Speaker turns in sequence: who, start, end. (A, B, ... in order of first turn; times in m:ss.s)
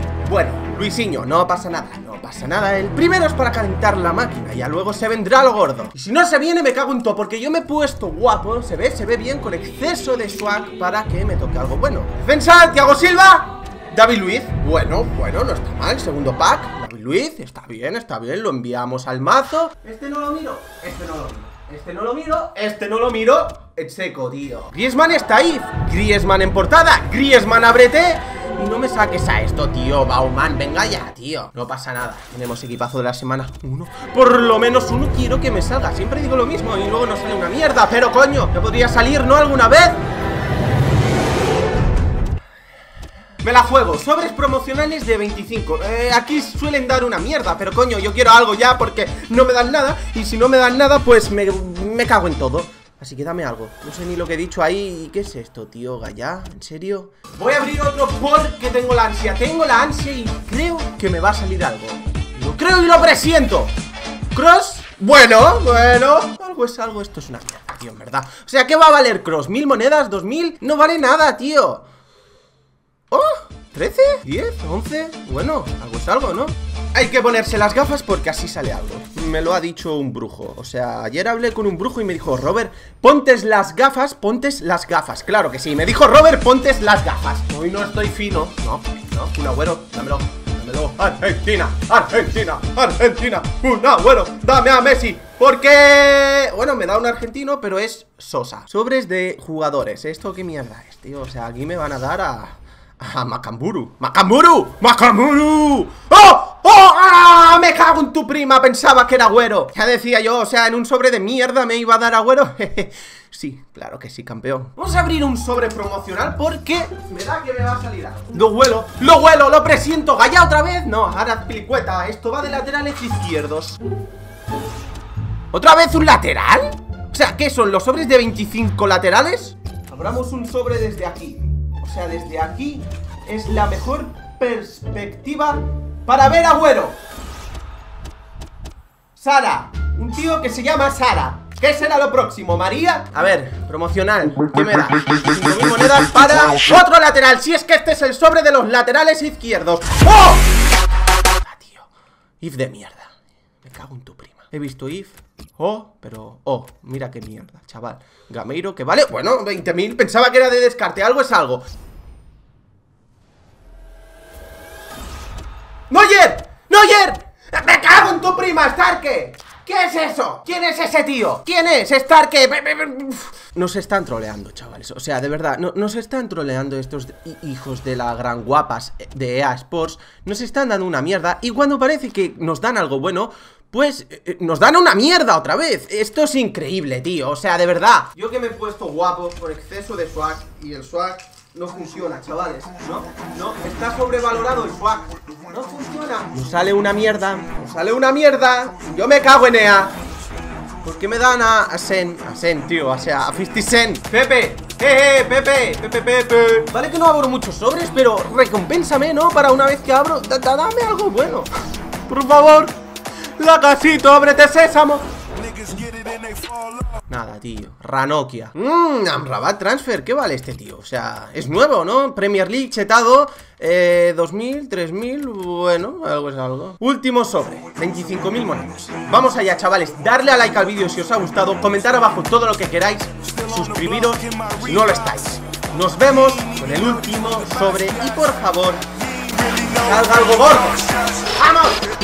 0:00.2-0:40.0 A
0:43.4-1:03.7 A
1:04.3-1:11.8 A
1:13.1-2:03.8 A
2:05.5-2:17.0 A
2:19.2-2:30.5 A
2:31.4-2:31.9 A
2:32.4-2:41.6 A
2:45.9-3:19.9 A
3:20.8-3:31.5 A
3:32.1-3:32.8 A
3:33.4-3:35.0 A
3:37.1-3:58.8 A
3:59.7-4:01.8 A